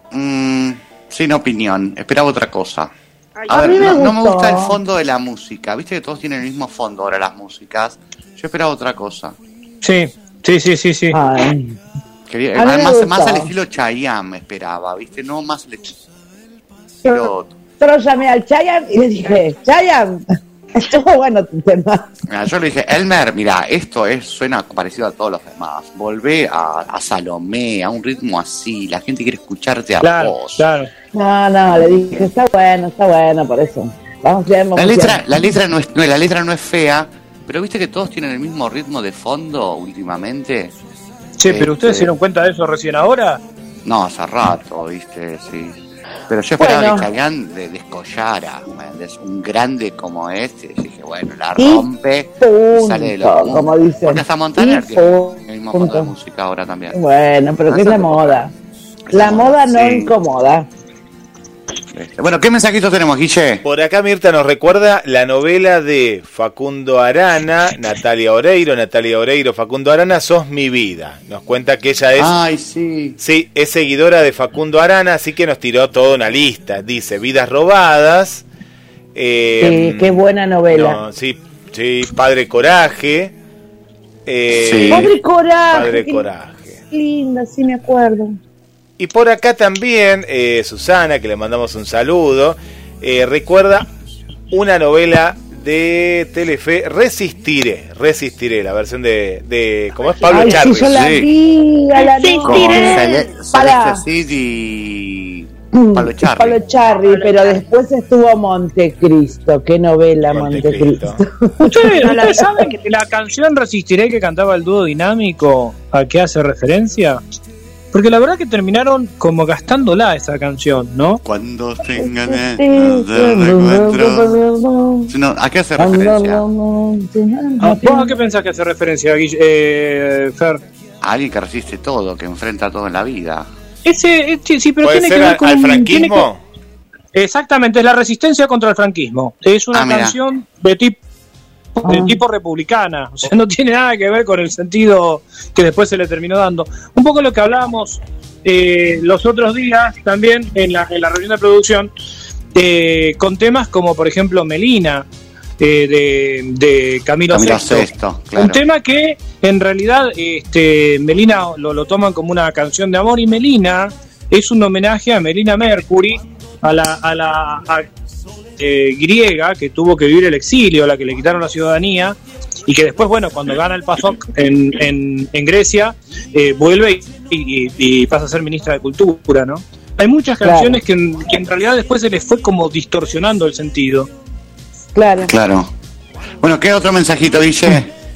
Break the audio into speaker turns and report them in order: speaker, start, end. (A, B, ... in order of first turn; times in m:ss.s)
0:00.1-0:02.9 A
0:03.4-0:04.1 B
0:03.5-0:04.8 C
0:03.5-0:09.4 A
0:09.8-0:11.2 D
0:11.1-0:11.8 C
0:12.3-0:16.0 A
0:12.6-0:13.5 C
0:17.0-0:17.5 A
0:17.0-0:22.1 C
0:22.3-0:30.6 A
0:30.0-0:30.9 D
0:31.1-0:35.2 C
0:34.8-0:40.7 A
0:41.4-0:43.4 D
0:41.4-0:42.1 A
0:43.8-0:45.8 A
0:46.3-0:57.0 A
0:46.6-0:47.1 C
0:51.6-0:51.9 C
0:52.4-0:56.1 C
0:56.9-0:58.5 C
0:57.7-0:58.5 A
0:59.1-1:00.1 A
0:59.1-1:00.7 C
1:01.9-1:03.6 A
1:03.6-1:12.3 E
1:12.2-1:13.2 A
1:13.2-1:18.4 E
1:19.2-1:20.2 E
1:19.6-1:21.0 C
1:20.7-1:23.3 E
1:24.3-1:25.1 E
1:24.5-1:25.1 A
1:24.9-1:26.3 C
1:25.7-1:26.8 E
1:26.9-1:28.4 C
1:29.0-1:33.9 E
1:34.5-1:41.2 E
1:40.1-1:40.4 B
1:40.3-1:44.0 C
1:40.6-1:41.3 A
1:42.0-1:43.3 B
1:42.4-1:46.6 A
1:45.7-1:52.5 C
1:47.0-1:47.6 B
1:50.3-1:51.2 E
1:51.7-1:57.2 D
1:52.0-1:52.8 B
1:57.9-2:01.2 D
2:01.2-2:04.4 A
2:02.0-2:05.1 C
2:05.1-2:06.4 A
2:05.8-2:08.1 C
2:07.6-2:10.6 D
2:11.0-2:13.5 A
2:13.8-2:16.3 D
2:14.8-2:16.4 E
2:17.1-2:21.0 D
2:19.7-2:20.2 A
2:21.8-2:31.9 D
2:21.8-2:22.2 C
2:32.6-2:35.1 D
2:35.6-2:47.9 D
2:37.3-2:38.6 A
2:48.6-3:04.1 D
3:00.4-3:00.8 C
3:05.0-3:05.3 C
3:05.2-3:05.7 A
3:06.4-3:07.9 A